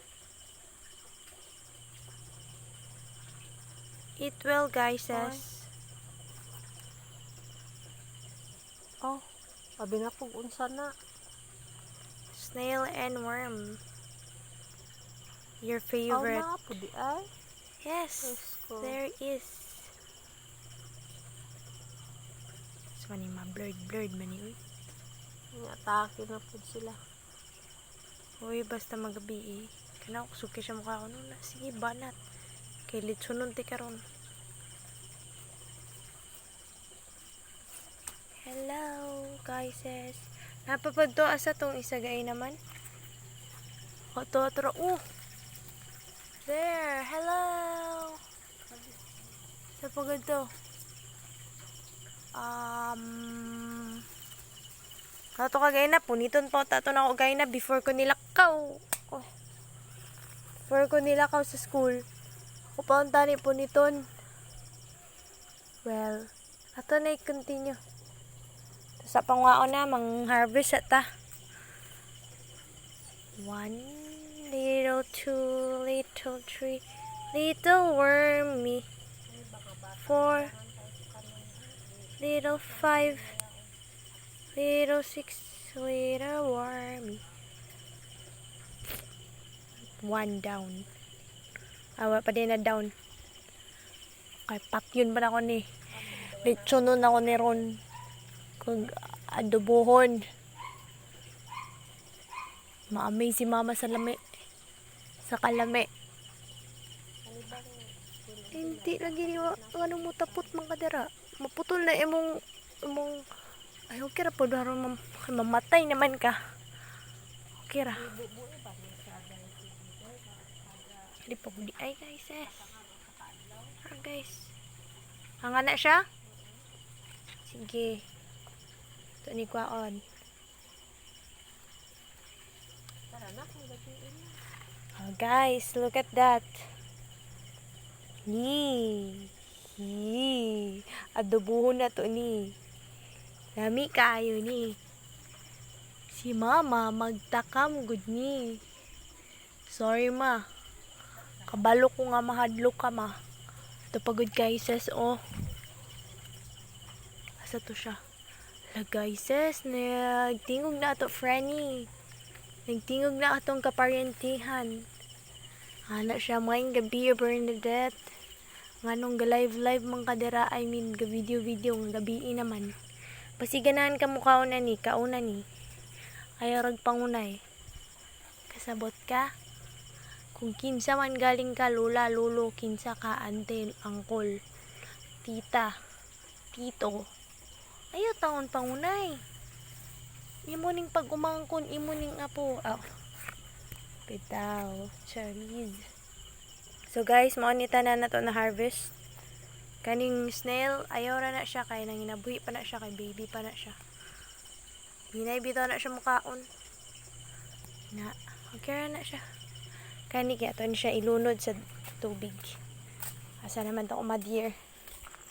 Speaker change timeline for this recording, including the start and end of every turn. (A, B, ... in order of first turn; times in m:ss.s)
0:04.2-0:05.7 A
0:05.1-0:05.4 B
0:09.8-0:10.9 B
0:12.3-0:13.8 A
0:15.6-0:16.6 A
0:16.1-0:17.3 B
0:17.8-0:19.9 A
0:18.2-0:19.0 B
0:23.0-0:24.6 A
0:25.6-0:27.0 B
0:28.4-0:32.2 A
0:32.9-0:34.0 A
0:38.4-0:42.6 A
0:44.1-0:45.0 A
0:46.4-0:48.2 A
0:48.7-0:49.0 B
0:49.8-0:50.4 A
0:52.4-0:54.0 A
0:55.4-0:59.2 A
1:00.7-1:02.0 A
1:02.8-1:04.0 A
1:05.8-1:06.2 A
1:06.8-1:07.8 A
1:09.0-1:11.0 A
1:13.4-1:16.8 A
1:17.3-1:18.8 A
1:19.3-1:23.7 B
1:20.0-1:20.5 A
1:22.2-1:23.2 A
1:24.5-1:27.2 A
1:30.0-1:30.8 A
1:32.0-1:32.9 A
1:34.5-1:35.6 A
1:35.9-1:37.7 B
1:36.2-1:37.7 A
1:38.6-1:40.2 A
1:42.9-1:44.2 A
1:45.2-1:45.9 A
1:47.2-1:50.6 B
1:48.5-1:52.3 A
1:52.9-1:53.2 A
1:53.9-1:56.3 A
1:57.6-1:58.0 A
1:58.0-2:01.2 B
2:01.2-2:02.6 A
2:02.4-2:03.8 B
2:03.8-2:04.5 A
2:05.4-2:06.0 A
2:06.2-2:06.6 B
2:07.5-2:08.0 A
2:09.2-2:10.0 A
2:13.1-2:14.4 B
2:15.0-2:16.5 A
2:18.3-2:22.4 A
2:23.6-2:24.7 A
2:26.1-2:28.5 A
2:29.7-2:30.4 A
2:31.5-2:33.1 A
2:33.9-2:35.2 A
2:37.4-2:38.0 A
2:38.7-2:41.9 A
2:42.7-2:44.7 A
2:45.9-2:48.0 A
2:48.8-2:52.7 A
2:53.4-2:55.4 A
2:56.4-2:57.3 A
2:58.5-2:59.2 A
3:00.4-3:04.3 A
3:05.2-3:05.7 A
3:06.5-3:07.0 A
3:07.9-3:09.2 A
3:10.5-3:12.8 A
3:14.1-3:15.8 A
3:16.9-3:18.9 A
3:19.8-3:23.7 A
3:25.1-3:26.4 A
3:27.9-3:29.2 A
3:30.1-3:32.5 A
3:33.4-3:34.5 A